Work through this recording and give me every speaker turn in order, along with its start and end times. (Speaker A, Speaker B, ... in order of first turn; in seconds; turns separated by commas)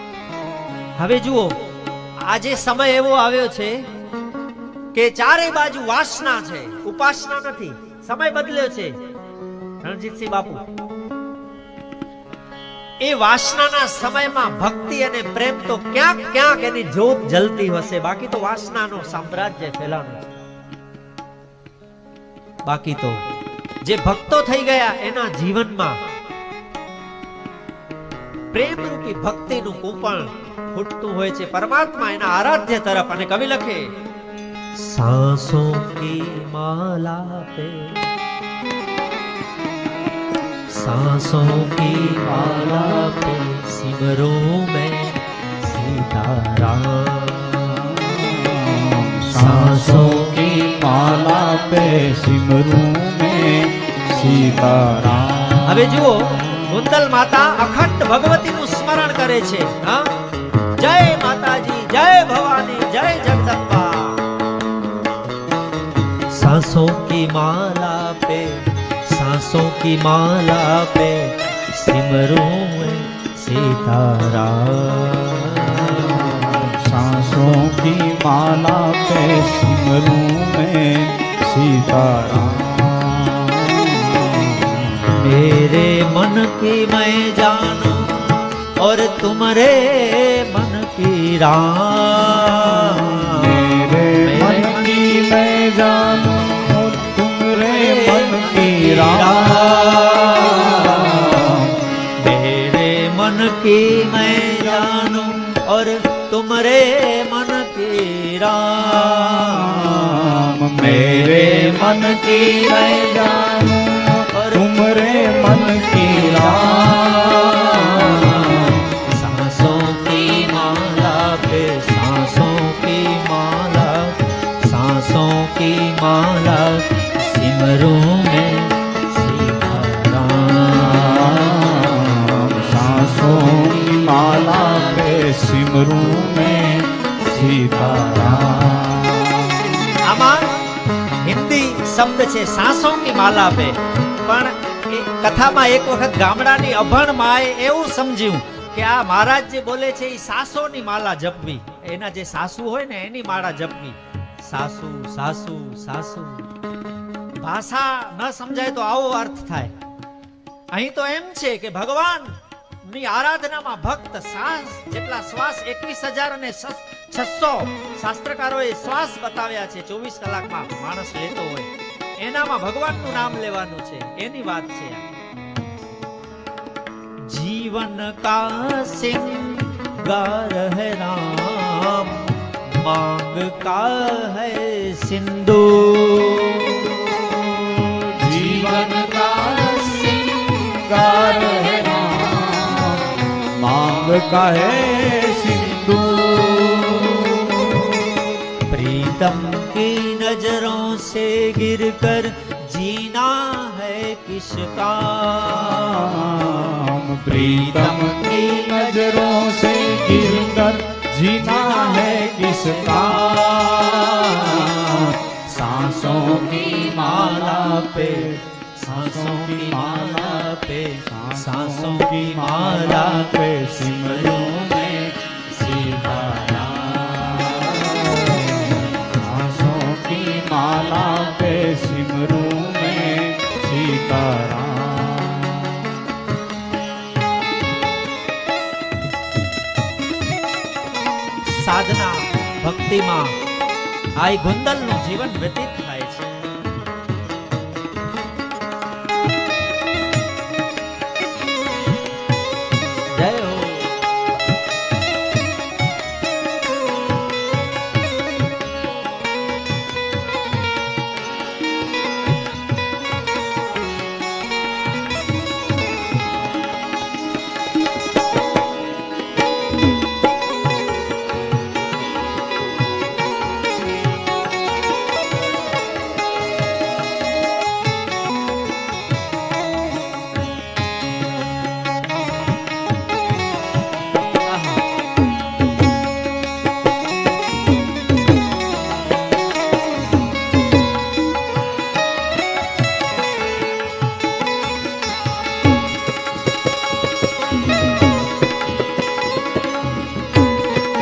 Speaker A: 1.0-1.6, Speaker A: 2.2-3.8, Speaker A: 4.9-9.0, Speaker A: 9.8-10.7, Speaker A: 13.0-20.2, Speaker A: 22.6-23.2, Speaker A: 23.8-26.0, Speaker A: 28.5-33.9, Speaker A: 34.7-38.1, Speaker A: 40.7-48.0, Speaker B: 42.4-42.8, Speaker B: 47.8-56.1, Speaker A: 49.3-50.4, Speaker A: 55.6-60.1, Speaker A: 60.8-64.2, Speaker A: 66.3-76.7, Speaker B: 76.0-85.1, Speaker A: 85.1-95.1, Speaker B: 93.2-101.8, Speaker A: 97.6-113.3, Speaker B: 109.3-118.8, Speaker A: 114.3-131.4, Speaker B: 130.7-139.6, Speaker A: 133.4-134.9, Speaker A: 140.0-140.6, Speaker A: 141.2-156.5, Speaker A: 157.4-159.7, Speaker A: 160.7-175.1, Speaker A: 177.2-187.3, Speaker B: 187.2-198.1, Speaker A: 198.6-206.3, Speaker B: 205.7-213.9, Speaker A: 207.3-209.2, Speaker A: 211.4-215.4, Speaker B: 215.4-218.3, Speaker A: 216.7-224.7, Speaker B: 218.8-220.5, Speaker B: 221.0-235.9, Speaker A: 241.4-243.4, Speaker A: 244.2-246.3, Speaker A: 253.1-254.0, Speaker A: 284.4-284.9